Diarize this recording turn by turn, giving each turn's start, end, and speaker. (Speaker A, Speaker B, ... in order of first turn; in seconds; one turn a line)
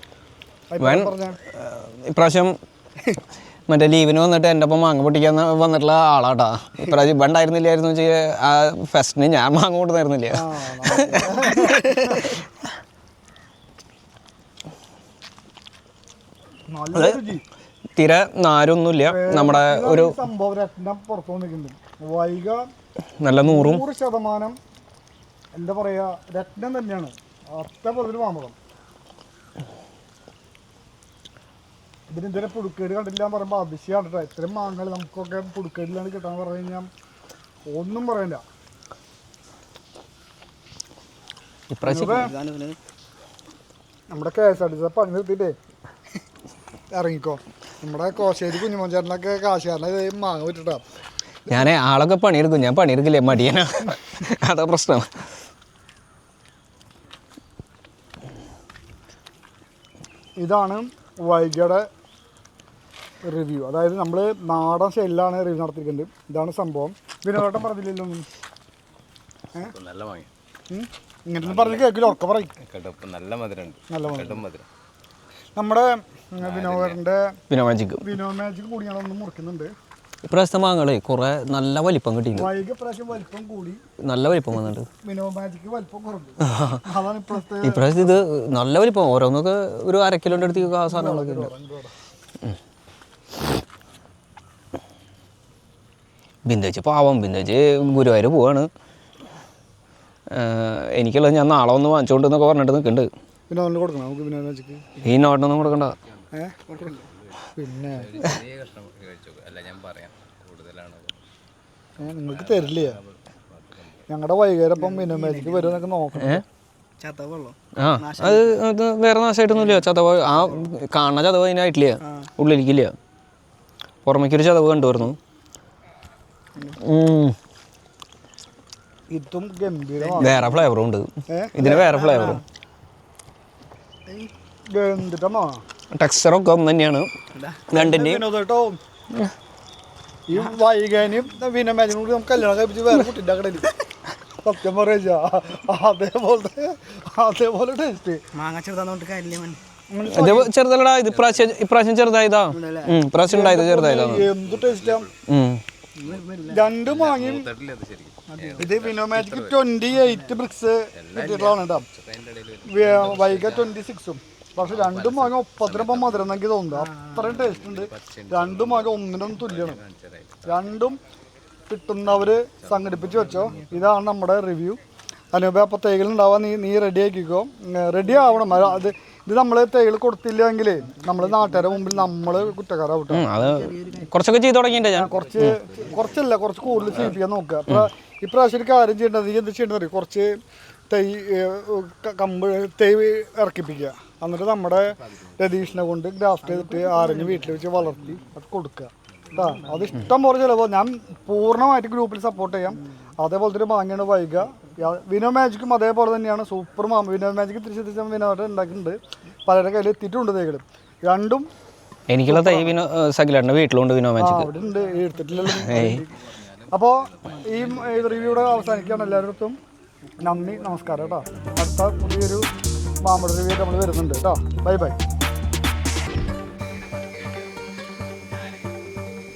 Speaker A: 0.7-1.4
Speaker B: 0.8-2.5
Speaker B: 3.7-12.5
Speaker A: 10.3-12.0
Speaker A: 16.7-17.4
Speaker B: 16.9-17.2
Speaker B: 18.0-20.1
Speaker A: 19.1-22.7
Speaker B: 23.2-23.8
Speaker A: 23.4-24.6
Speaker A: 25.5-28.6
Speaker A: 32.1-36.9
Speaker A: 37.7-38.4
Speaker B: 41.7-42.3
Speaker A: 41.8-42.4
Speaker C: 42.2-42.8
Speaker A: 44.1-45.6
Speaker A: 46.9-50.8
Speaker B: 51.5-55.1
Speaker A: 60.4-61.8
Speaker A: 63.2-68.3
Speaker D: 69.6-70.3
Speaker A: 70.7-72.6
Speaker D: 71.4-72.1
Speaker D: 72.7-74.7
Speaker A: 73.9-74.4
Speaker A: 75.6-77.4
Speaker D: 76.4-77.0
Speaker B: 77.5-78.1
Speaker A: 78.0-79.7
Speaker B: 80.2-82.5
Speaker A: 82.4-83.8
Speaker B: 84.0-84.9
Speaker A: 85.0-88.2
Speaker B: 86.4-86.8
Speaker B: 87.6-91.5
Speaker A: 90.4-91.9
Speaker B: 96.5-98.7
Speaker B: 100.3-103.1
Speaker A: 103.5-104.8
Speaker B: 105.0-106.0
Speaker C: 106.7-107.1
Speaker D: 106.7-111.2
Speaker A: 107.5-108.2
Speaker A: 112.0-113.0
Speaker D: 112.1-114.0
Speaker A: 114.1-116.4
Speaker C: 114.8-115.9
Speaker B: 116.2-116.4
Speaker C: 117.0-118.6
Speaker B: 117.8-122.9
Speaker C: 119.5-120.7
Speaker C: 122.0-122.3
Speaker B: 124.1-125.2
Speaker B: 126.8-127.4
Speaker A: 129.1-130.5
Speaker C: 130.0-130.7
Speaker B: 130.2-132.4
Speaker A: 131.3-132.2
Speaker C: 131.8-132.4
Speaker A: 134.7-135.6
Speaker B: 135.9-137.1
Speaker C: 137.3-137.7
Speaker B: 137.7-138.2
Speaker A: 137.7-138.8
Speaker A: 140.3-143.8
Speaker A: 144.4-148.2
Speaker C: 148.3-149.6
Speaker A: 149.9-150.5
Speaker B: 150.1-154.3
Speaker D: 151.1-151.6
Speaker C: 152.5-153.0
Speaker A: 153.2-155.1
Speaker D: 154.3-155.2
Speaker B: 155.3-155.6
Speaker C: 156.0-156.8
Speaker D: 156.0-159.7
Speaker A: 156.5-157.5
Speaker C: 158.3-158.8
Speaker A: 158.6-161.9
Speaker C: 159.9-160.4
Speaker D: 160.9-163.8
Speaker C: 161.2-161.6
Speaker A: 162.7-169.8
Speaker D: 164.6-166.4
Speaker C: 166.7-167.5
Speaker D: 167.3-170.7
Speaker A: 170.4-171.0
Speaker A: 171.7-174.8
Speaker D: 172.3-173.7
Speaker A: 175.3-183.3
Speaker C: 178.2-178.6
Speaker C: 181.0-182.1
Speaker B: 183.1-185.6
Speaker C: 183.4-184.1
Speaker A: 184.9-190.3
Speaker D: 185.0-186.3
Speaker A: 190.9-211.5
Speaker C: 196.4-198.2
Speaker C: 199.3-199.9
Speaker B: 212.1-214.5
Speaker A: 212.3-212.8
Speaker A: 214.2-219.6
Speaker C: 215.0-215.5
Speaker B: 215.5-216.0
Speaker D: 216.3-218.8
Speaker C: 217.3-217.6
Speaker C: 218.8-219.2
Speaker A: 220.2-222.5
Speaker C: 220.2-220.6
Speaker A: 223.0-225.0
Speaker D: 226.8-227.4